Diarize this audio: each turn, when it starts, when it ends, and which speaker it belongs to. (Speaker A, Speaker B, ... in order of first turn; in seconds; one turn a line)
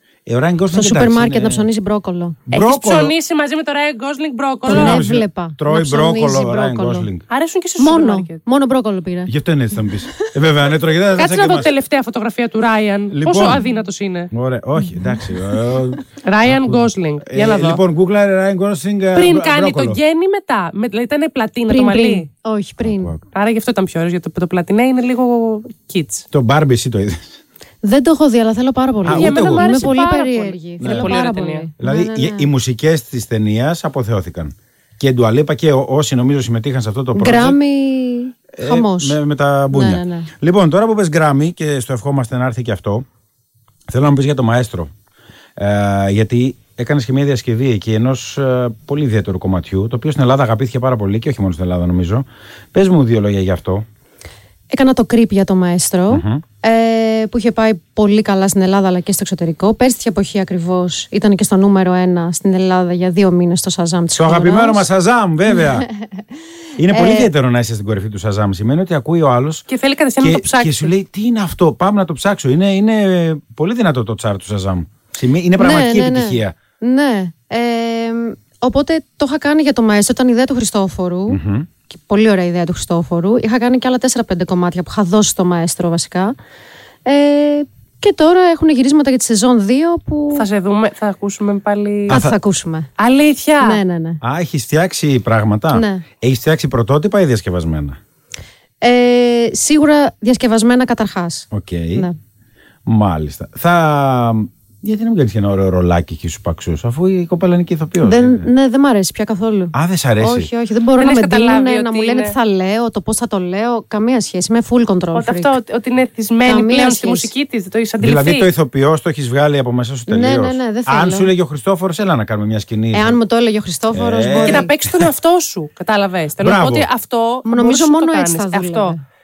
Speaker A: 0.3-1.7
Speaker B: 0.7-2.4
Speaker A: 2.5-3.1
Speaker C: 2.5-5.0
Speaker B: 4.7-7.1
Speaker A: 4.7-7.2
Speaker C: 7.3-8.4
Speaker B: 7.8-9.3
Speaker A: 9.3-11.7
Speaker C: 11.2-14.3
Speaker A: 13.1-13.7
Speaker A: 14.3-20.0
Speaker C: 16.2-17.8
Speaker C: 19.1-22.3
Speaker B: 21.7-23.1
Speaker A: 22.8-23.2
Speaker C: 23.3-26.3
Speaker A: 26.3-27.4
Speaker B: 27.8-32.5
Speaker A: 29.1-29.9
Speaker C: 29.1-31.7
Speaker A: 30.8-31.1
Speaker A: 31.8-37.6
Speaker B: 37.1-39.2
Speaker A: 38.5-43.1
Speaker B: 39.7-40.3
Speaker A: 43.9-44.9
Speaker A: 45.6-53.9
Speaker B: 54.7-64.9
Speaker A: 56.1-56.4
Speaker A: 64.2-65.9
Speaker A: 66.8-69.7
Speaker B: 66.9-67.3
Speaker C: 69.7-70.9
Speaker A: 70.2-76.6
Speaker B: 75.6-86.4
Speaker A: 81.3-81.7
Speaker B: 87.1-90.5
Speaker C: 90.3-92.2
Speaker A: 92.1-92.3
Speaker B: 92.1-92.9
Speaker C: 93.0-93.8
Speaker B: 93.6-94.2
Speaker A: 94.2-98.0
Speaker B: 95.7-96.0
Speaker B: 98.8-102.2
Speaker A: 101.5-102.1
Speaker A: 102.9-108.5
Speaker B: 108.0-115.5
Speaker A: 109.7-110.5
Speaker C: 111.0-112.3
Speaker C: 115.2-118.5
Speaker B: 116.5-117.3
Speaker A: 118.0-123.2
Speaker B: 120.1-121.3
Speaker B: 122.9-124.7
Speaker A: 123.9-125.1
Speaker C: 124.5-128.9
Speaker A: 126.4-126.9
Speaker B: 127.5-129.0